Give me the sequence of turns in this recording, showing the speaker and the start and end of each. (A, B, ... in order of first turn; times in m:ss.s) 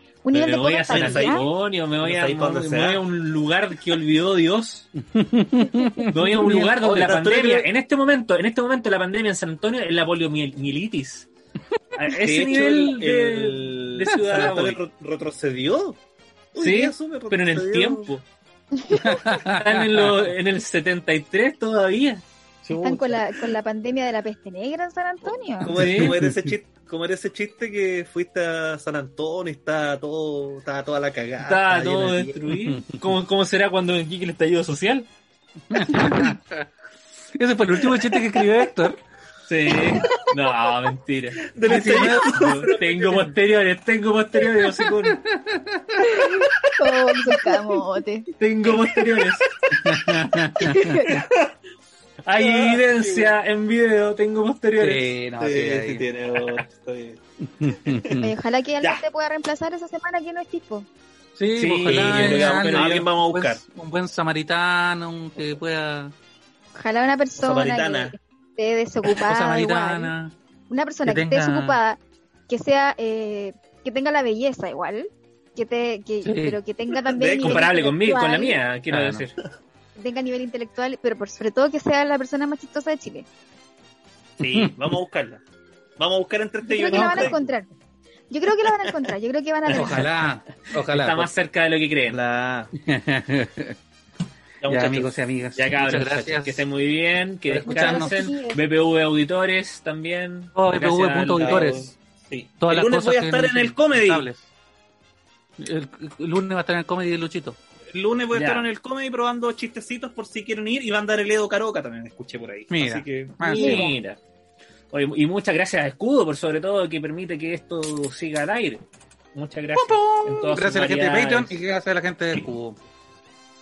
0:00.2-0:01.4 A
0:00.3-0:04.9 B
0:00.9-0:01.5 C
0:02.0-0:03.0 C
0:05.0-0:06.8 D
0:06.1-0:11.3 B
0:06.5-0:07.7 C
0:11.9-0:14.8 B
0:12.1-0:16.0 C
0:16.5-0:18.1 C
0:16.6-0:18.2 B
0:18.8-0:19.2 A
0:18.9-0:20.2 D
0:19.4-0:22.2 B
0:22.6-0:23.4 C
0:22.8-0:25.7 A
0:25.2-0:32.4 C
0:25.8-0:26.2 B
0:25.8-0:26.5 D
0:31.4-0:35.1 B
0:32.5-0:33.0 D
0:35.7-0:36.7 D
0:37.3-0:39.0 D
0:37.9-0:38.5 C
0:39.5-0:45.2 B
0:41.5-0:43.3 C
0:41.6-0:42.7 D
0:45.0-0:46.2 D
0:46.0-0:48.3 A
0:46.5-0:47.6 C
0:48.4-0:49.4 B
0:48.7-0:50.2 C
0:49.8-0:51.1 D
0:50.6-0:51.2 A
0:51.0-0:51.5 C
0:52.2-0:55.1 B
0:52.4-0:53.4 C
0:54.8-0:56.0 D
0:55.4-0:58.2 C
0:57.5-0:58.3 D
0:58.2-1:00.8 A
1:01.4-1:06.1 D
1:01.6-1:03.0 B
1:01.8-1:03.6 C
1:06.7-1:10.1 A
1:07.4-1:08.1 C
1:09.2-1:10.3 D
1:10.7-1:18.6 A
1:11.0-1:11.8 D
1:16.2-1:16.6 D
1:17.0-1:17.7 C
1:17.4-1:19.4 B
1:18.9-1:19.2 D
1:20.0-1:23.2 A
1:24.4-1:25.4 C
1:26.0-1:27.4 C
1:26.6-1:27.7 A
1:26.9-1:27.3 D
1:28.3-1:30.1 A
1:28.6-1:29.1 C
1:29.7-1:31.3 D
1:30.8-1:32.2 B
1:32.1-1:32.7 C
1:32.8-1:33.8 D
1:34.6-1:35.2 C
1:34.7-1:36.6 D
1:35.6-1:41.7 B
1:37.5-1:38.2 D
1:37.6-1:38.6 A
1:40.6-1:42.0 D
1:41.4-1:44.3 C
1:42.6-1:44.4 D
1:45.6-1:47.6 D
1:47.9-1:53.6 C
1:48.3-1:48.7 B
1:52.7-1:53.9 D
1:53.4-1:54.2 B
1:53.6-1:53.9 A
1:54.9-1:58.8 B
1:59.3-2:01.6 B
1:59.7-2:02.8 D